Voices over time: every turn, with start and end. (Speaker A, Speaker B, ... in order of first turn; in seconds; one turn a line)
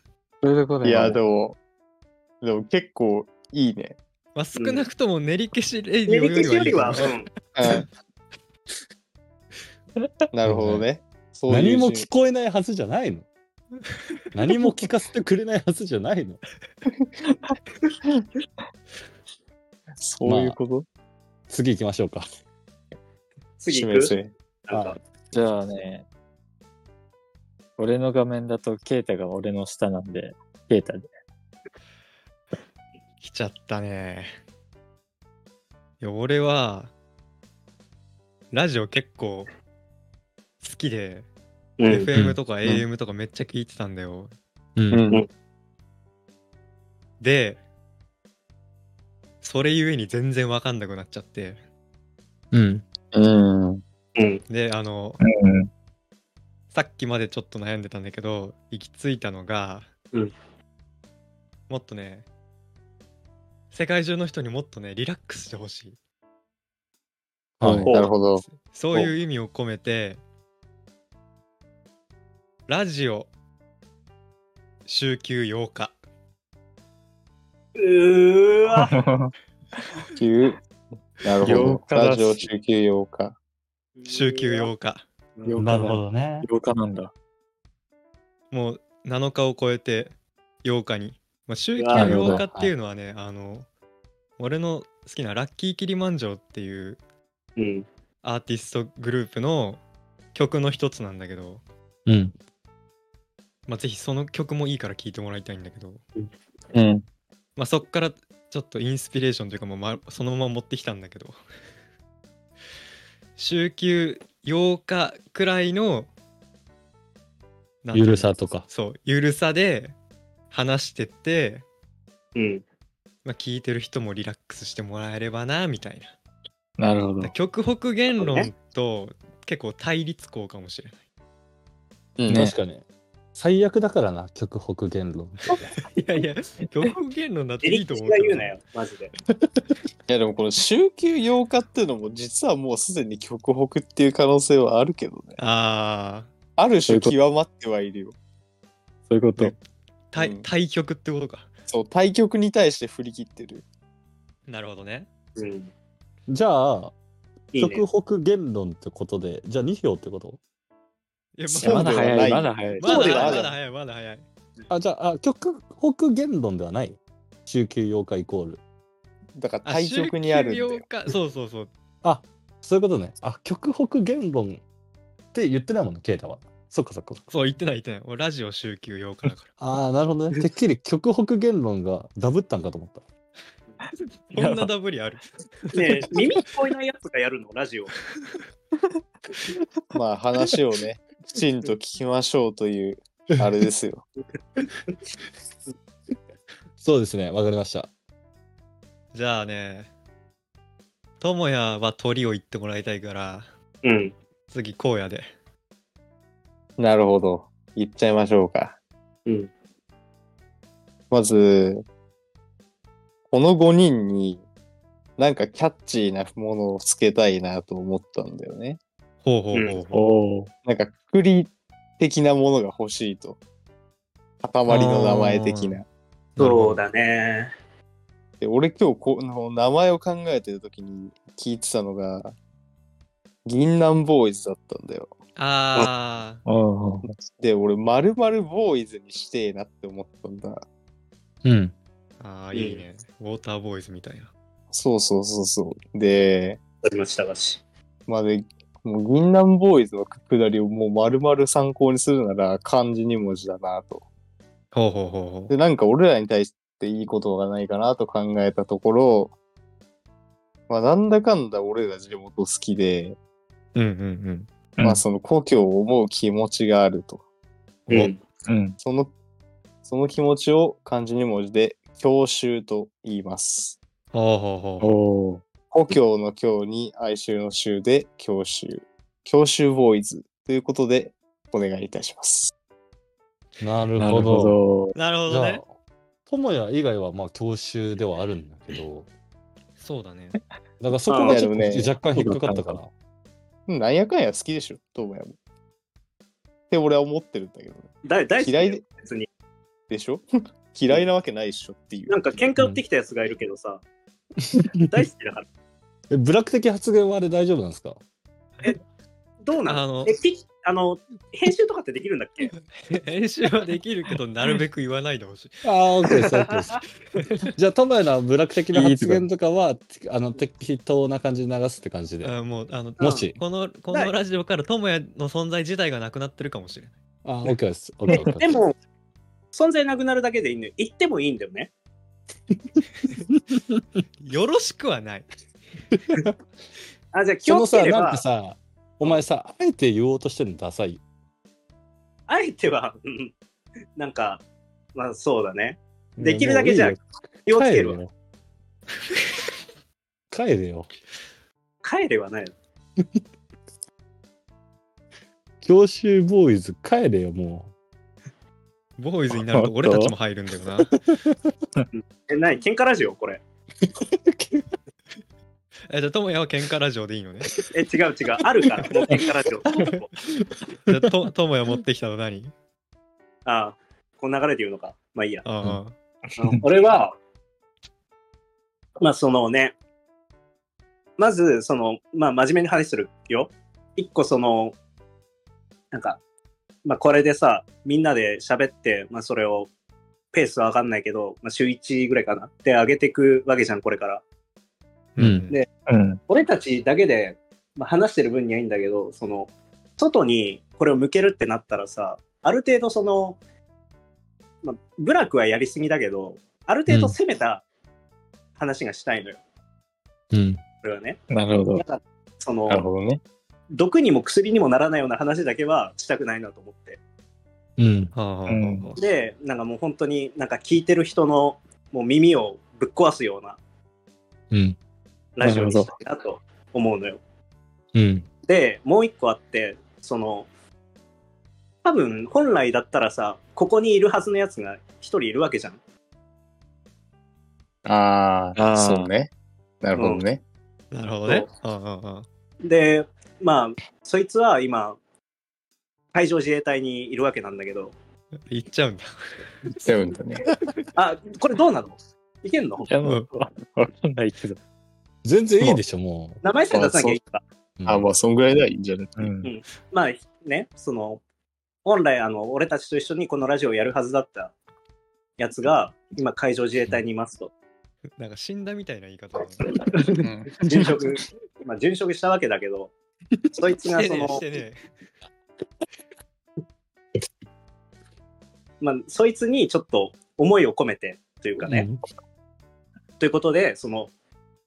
Speaker A: 0.4-1.2
Speaker B: 0.8-1.6
Speaker B: 2.4-4.0
Speaker C: 4.3-7.1
Speaker D: 4.5-4.8
Speaker D: 6.1-7.3
Speaker B: 7.5-7.9
Speaker B: 10.3-12.1
Speaker E: 10.4-10.8
Speaker E: 11.5-13.3
Speaker E: 14.3-16.4
Speaker B: 20.0-20.9
Speaker E: 20.2-20.6
Speaker E: 21.5-22.2
Speaker D: 23.6-24.1
Speaker B: 23.7-24.3
Speaker D: 24.7-25.0
Speaker E: 24.7-25.0
Speaker A: 25.3-26.1
Speaker A: 27.8-31.1
Speaker C: 33.2-34.3
Speaker C: 36.0-36.9
Speaker C: 38.5-39.5
Speaker C: 40.6-41.3
Speaker D: 41.8-42.1
Speaker C: 41.9-44.3
Speaker E: 42.1-42.4
Speaker E: 44.8-45.0
Speaker B: 44.9-45.2
Speaker C: 47.2-47.6
Speaker C: 49.4-51.6
Speaker E: 52.5-52.8
Speaker B: 53.1-53.8
Speaker D: 54.1-54.4
Speaker C: 54.5-55.2
Speaker A: 55.2-55.7
Speaker C: 56.7-59.9
Speaker C: 61.7-62.2
Speaker C: 63.7-66.0
Speaker E: 67.6-67.9
Speaker B: 67.6-69.1
Speaker D: 67.8-68.1
Speaker C: 68.3-70.2
Speaker C: 72.7-73.3
Speaker C: 74.8-76.0
Speaker D: 77.8-79.0
Speaker A: 78.7-79.3
Speaker B: 80.1-80.6
Speaker B: 81.2-83.3
Speaker A: 81.4-82.5
Speaker D: 84.0-84.7
Speaker C: 84.0-85.1
Speaker A: 85.4-87.1
Speaker E: 85.5-86.5
Speaker C: 88.5-93.7
Speaker D: 91.8-92.2
Speaker E: 91.9-92.7
Speaker C: 94.4-97.0
Speaker D: 97.6-97.8
Speaker C: 98.2-99.8
Speaker C: 100.3-101.6
Speaker E: 102.0-102.3
Speaker C: 103.7-106.0
Speaker B: 106.7-107.0
Speaker C: 107.5-111.4
Speaker C: 113.3-116.1
Speaker C: 117.8-120.0
Speaker E: 117.9-118.7
Speaker C: 120.5-121.6
Speaker D: 122.3-122.6
Speaker C: 123.2-126.1
Speaker A: 126.8-127.3
Speaker C: 127.2-131.0
Speaker D: 128.2-128.5
Speaker B: 132.2-132.5
Speaker E: 132.3-132.8
Speaker E: 133.3-135.6
Speaker C: 135.9-138.5
Speaker D: 137.6-139.1
Speaker B: 140.1-145.4
Speaker C: 145.4-146.3
Speaker B: 146.6-148.1
Speaker A: 146.9-147.2
Speaker A: 149.1-149.5
Speaker C: 150.1-151.5
Speaker B: 150.2-150.5
Speaker B: 151.7-153.6
Speaker C: 154.5-155.1
Speaker D: 155.3-155.7
Speaker E: 156.3-156.9
Speaker D: 157.5-157.8
Speaker E: 157.6-160.4
Speaker C: 161.4-162.2
Speaker A: 161.6-163.3
Speaker B: 161.6-163.5
Speaker C: 162.8-164.2
Speaker E: 164.7-168.6
Speaker B: 169.4-170.8
Speaker C: 169.6-171.7
Speaker E: 172.0-174.6
Speaker E: 175.3-177.2
Speaker C: 177.3-179.6
Speaker E: 179.6-183.0
Speaker C: 184.3-186.0
Speaker A: 184.4-184.7
Speaker D: 185.7-187.9
Speaker B: 189.9-194.0
Speaker E: 196.8-197.9
Speaker C: 199.1-199.9
Speaker C: 201.2-203.5
Speaker D: 203.8-204.1
Speaker C: 204.5-205.3
Speaker B: 206.8-208.8
Speaker B: 211.1-211.8
Speaker B: 213.3-214.4
Speaker B: 215.2-218.8
Speaker C: 219.2-220.1
Speaker A: 219.9-220.5
Speaker B: 220.6-223.4
Speaker B: 224.4-225.8
Speaker C: 224.7-225.8
Speaker C: 226.3-226.8
Speaker D: 226.4-227.5
Speaker B: 228.4-232.3
Speaker B: 233.4-235.1
Speaker C: 235.3-236.4
Speaker A: 236.4-237.1
Speaker B: 237.1-240.6
Speaker E: 241.4-241.7
Speaker C: 242.2-244.3
Speaker D: 242.5-242.8
Speaker B: 244.7-246.6
Speaker D: 246.8-247.6
Speaker B: 248.1-254.0
Speaker C: 254.7-255.5
Speaker B: 255.5-259.3
Speaker B: 260.7-263.2
Speaker C: 263.7-264.5
Speaker A: 264.8-265.0
Speaker B: 264.8-267.2
Speaker C: 267.9-268.1
Speaker D: 267.9-268.2
Speaker A: 268.5-268.8
Speaker B: 268.8-269.1
Speaker B: 269.8-273.8
Speaker C: 274.1-274.9
Speaker A: 274.8-275.4
Speaker B: 275.7-282.5
Speaker E: 283.6-284.6
Speaker A: 284.0-284.9
Speaker C: 284.9-285.6
Speaker E: 285.3-285.7
Speaker E: 286.3-289.1
Speaker C: 289.8-290.4
Speaker E: 290.8-292.9
Speaker D: 291.1-291.4
Speaker B: 291.2-291.9
Speaker A: 292.1-292.8
Speaker B: 293.7-295.3
Speaker B: 296.7-298.8
Speaker D: 298.0-299.3
Speaker B: 299.9-302.4
Speaker D: 302.1-303.8
Speaker E: 302.6-302.8
Speaker E: 304.5-304.9
Speaker D: 304.9-305.4
Speaker E: 306.1-308.0
Speaker D: 309.4-312.5
Speaker C: 309.6-310.2
Speaker C: 312.8-315.6
Speaker E: 315.6-316.8
Speaker C: 317.2-317.5
Speaker E: 317.5-322.3
Speaker A: 318.7-319.2
Speaker C: 322.2-326.9
Speaker E: 323.0-323.4
Speaker D: 323.0-323.2
Speaker E: 327.2-328.5
Speaker D: 328.1-328.8
Speaker D: 329.5-331.7
Speaker E: 333.3-333.8
Speaker C: 334.2-335.3
Speaker D: 337.1-338.2
Speaker E: 337.4-341.0
Speaker D: 342.3-343.3
Speaker D: 343.9-344.4
Speaker D: 344.9-348.0
Speaker E: 346.2-348.1
Speaker E: 350.3-350.9
Speaker D: 351.8-352.5
Speaker E: 355.6-357.7
Speaker C: 359.0-360.9
Speaker A: 359.5-360.1
Speaker D: 361.9-363.4
Speaker E: 363.9-364.7
Speaker C: 365.9-367.5
Speaker D: 367.7-370.1
Speaker C: 370.9-372.5
Speaker D: 373.4-375.4
Speaker C: 375.4-376.0
Speaker D: 376.4-377.1
Speaker D: 379.0-379.7
Speaker D: 381.2-384.8
Speaker D: 385.9-386.2
Speaker D: 386.8-389.7
Speaker D: 390.3-394.2
Speaker C: 395.1-395.6
Speaker E: 395.2-395.4
Speaker A: 395.9-396.2
Speaker D: 396.3-403.4
Speaker D: 404.6-407.6
Speaker E: 406.9-407.2
Speaker D: 408.6-409.4
Speaker E: 410.3-410.6
Speaker D: 410.8-411.2
Speaker A: 411.3-411.8
Speaker D: 411.7-412.8
Speaker B: 412.7-413.2
Speaker D: 413.7-417.0
Speaker E: 417.8-418.1
Speaker C: 418.1-419.0
Speaker A: 418.5-418.9
Speaker D: 419.0-423.6
Speaker E: 424.5-424.8
Speaker D: 425.4-427.2
Speaker A: 425.4-425.9
Speaker E: 427.9-428.2
Speaker D: 428.4-430.5
Speaker D: 431.8-435.8
Speaker B: 437.8-439.3
Speaker A: 438.5-439.1
Speaker B: 439.8-440.4
Speaker D: 439.9-440.2
Speaker C: 440.9-442.2
Speaker D: 442.6-445.0
Speaker D: 446.1-447.9
Speaker C: 448.5-449.1
Speaker B: 449.8-450.5
Speaker D: 450.9-452.9
Speaker A: 452.9-454.6
Speaker E: 455.2-456.4
Speaker D: 456.4-457.4
Speaker B: 456.7-457.2
Speaker E: 457.8-458.1
Speaker B: 457.9-459.3
Speaker A: 459.2-459.5
Speaker D: 459.4-461.2
Speaker D: 461.8-464.5
Speaker D: 465.4-467.5
Speaker C: 468.2-469.8
Speaker D: 470.0-472.9
Speaker B: 470.2-470.9
Speaker D: 473.5-474.4
Speaker C: 473.9-474.8
Speaker D: 478.8-481.9
Speaker E: 481.6-482.0
Speaker D: 483.2-484.1